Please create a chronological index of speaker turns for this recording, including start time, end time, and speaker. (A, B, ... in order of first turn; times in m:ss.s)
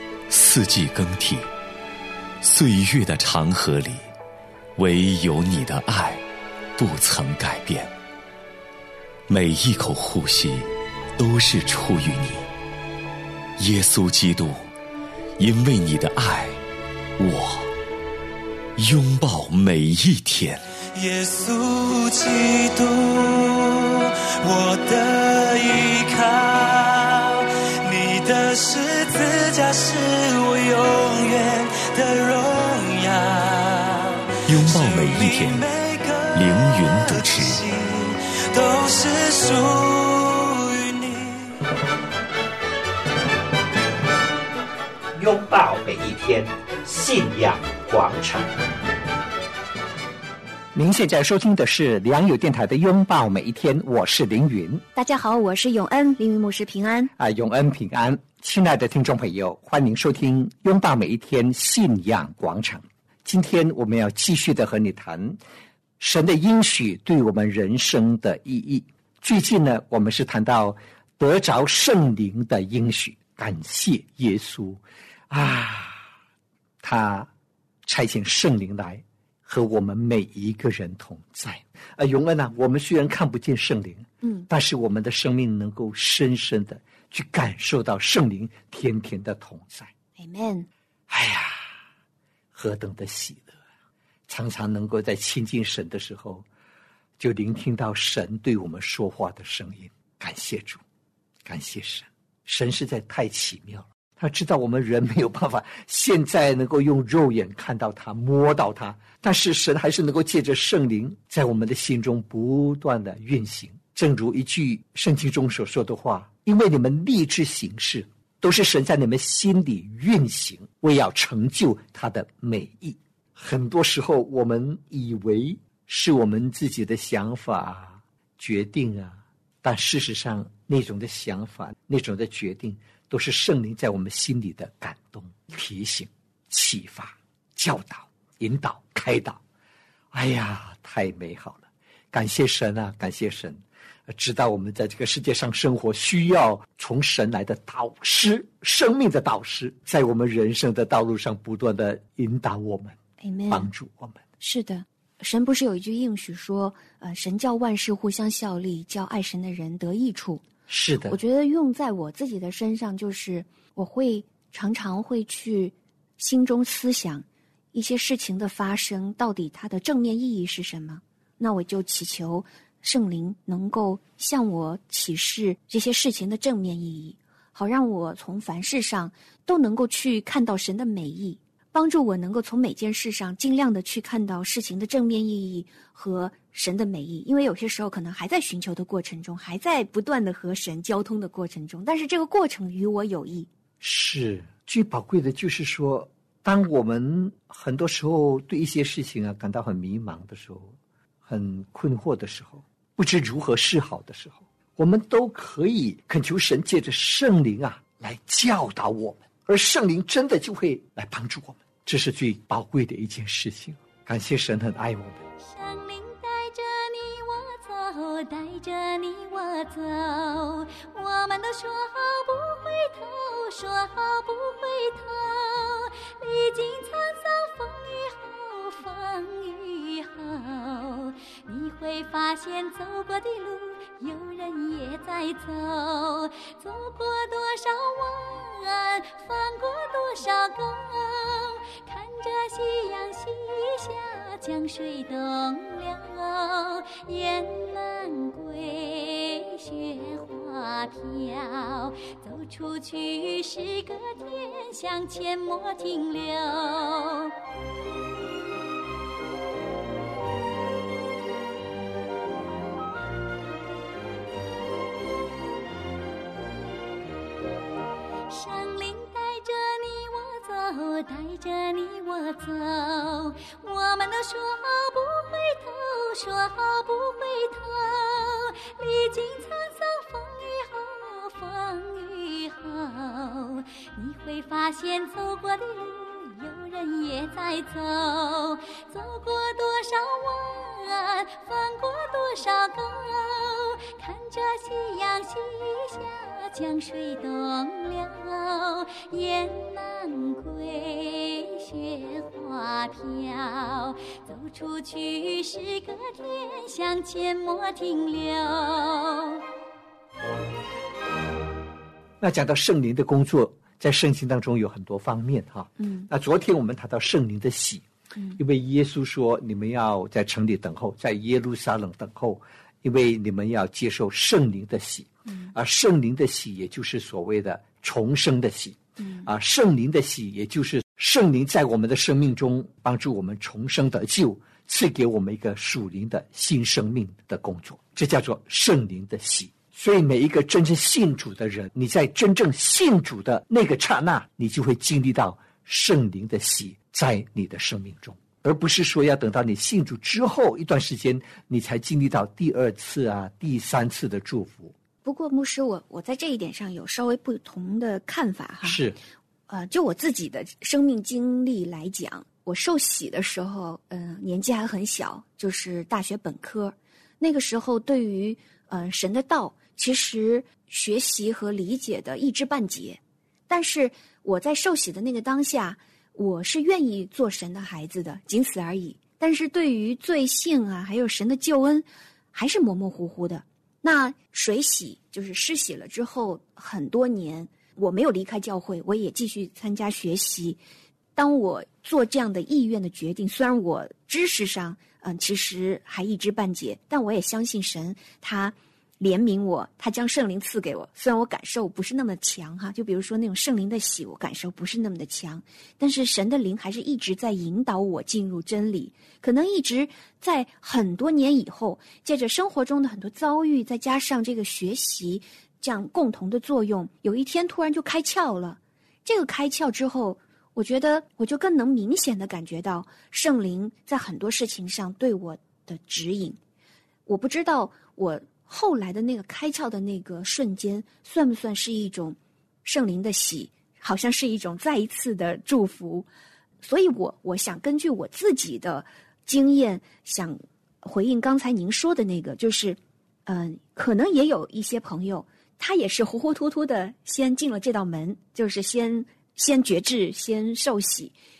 0:00.3-0:01.5 A
0:02.4-0:04.1 A
0:04.8-0:06.2 A
0:06.8-0:07.9 A
0:09.3-0:12.5 A
0:13.6-0:14.7 A
0:15.4-0:16.6 A
0:17.2-0:17.7 A
0:18.8-0:20.6 A
0:20.9-0:41.6 B
0:34.5-0:35.7 A
0:36.3-0:37.6 A
0:45.2-0:48.5 C
0:50.7-0:54.8 C
0:55.0-0:57.1 D
0:57.2-1:05.4 C
1:06.0-1:16.1 C
1:16.8-1:17.3 C
1:17.8-1:29.9 C
1:24.2-1:24.5 D
1:30.2-1:30.7 D
1:31.1-1:31.8 C
1:32.5-1:33.6 C
1:34.3-1:36.4 C
1:37.2-1:40.8 C
1:41.4-2:19.4 C
2:20.1-2:33.0 C
2:33.2-2:33.7 D
2:33.5-2:34.2 C
2:34.4-2:40.4 D
2:40.7-2:41.2 C
2:41.0-3:13.5 D
3:13.8-3:35.2 C
3:35.4-4:17.4 E
4:28.3-5:09.5 E
5:12.2-5:17.8 C
5:15.8-5:16.1 D
5:18.4-5:54.8 C
5:29.0-5:29.3 D
5:55.0-5:58.8 D
5:58.6-5:59.0 C
5:59.5-6:30.6 D
6:31.2-7:06.4 D
7:07.1-7:16.1 D
7:16.6-7:31.1 D